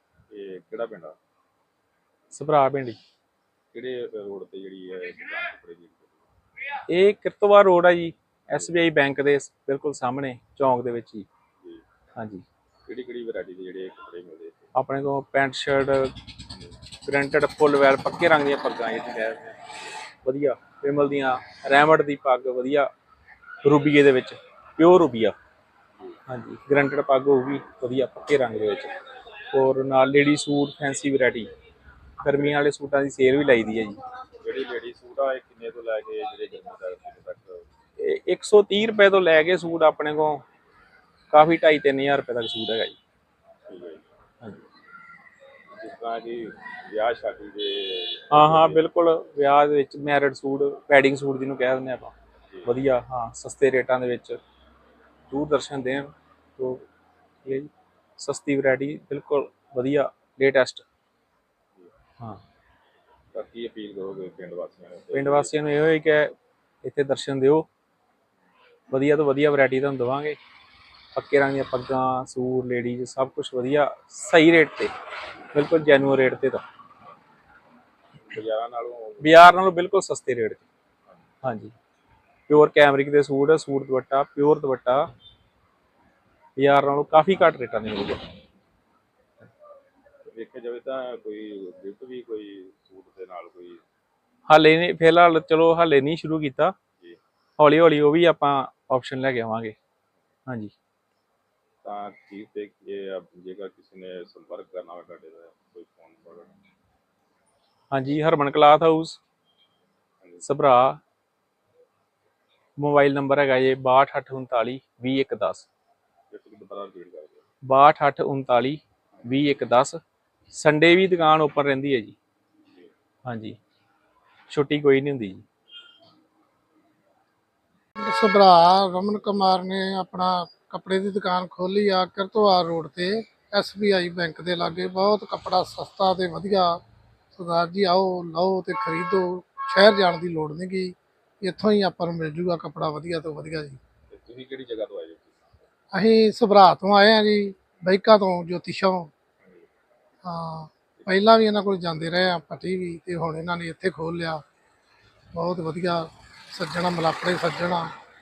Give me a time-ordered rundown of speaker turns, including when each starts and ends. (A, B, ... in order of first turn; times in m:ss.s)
0:00.3-0:01.2 A
0:02.3-0:03.0 B
0:03.7-0:06.2 A
0:06.9-0:11.3 B
0:12.2-0:12.4 B
0:12.8-0:14.7 A
0:14.7-0:16.1 B
0:17.0-0:19.6 B
0:20.2-0:22.9 B
0:23.6-0:25.4 B
0:26.3-0:28.9 B
0:29.5-0:31.5 B
0:32.2-0:34.0 B
0:34.4-0:37.6 A
0:38.0-0:40.4 B
0:41.3-0:43.0 B
0:43.7-0:44.0 A
0:45.7-0:48.9 A
0:48.3-0:52.1 B
0:52.6-0:54.4 B
0:55.3-0:56.8 B
0:57.4-1:00.8 B
1:03.3-1:05.5 A
1:05.1-1:06.3 B
1:06.8-1:07.6 B
1:08.9-1:10.4 B
1:11.1-1:14.9 B
1:15.5-1:16.6 B
1:18.2-1:19.4 A
1:19.2-1:20.6 B
1:21.4-1:21.7 B
1:22.5-1:25.1 B
1:26.6-1:28.2 B
1:30.3-1:33.8 A
1:34.5-1:36.7 B
1:37.6-1:39.7 B
1:40.5-1:40.7 B
1:41.8-1:46.5 A
1:47.9-1:49.2 B
1:50.4-1:51.0 B
1:52.8-1:55.7 B
1:56.3-1:57.4 A
1:57.6-2:00.0 B
2:00.5-2:02.2 B
2:03.2-2:03.6 B
2:04.5-2:05.4 B
2:08.0-2:16.8 C
2:17.3-2:23.8 C
2:24.1-2:25.6 A
2:25.9-2:29.1 C
2:30.2-2:34.4 C
2:35.3-2:37.9 C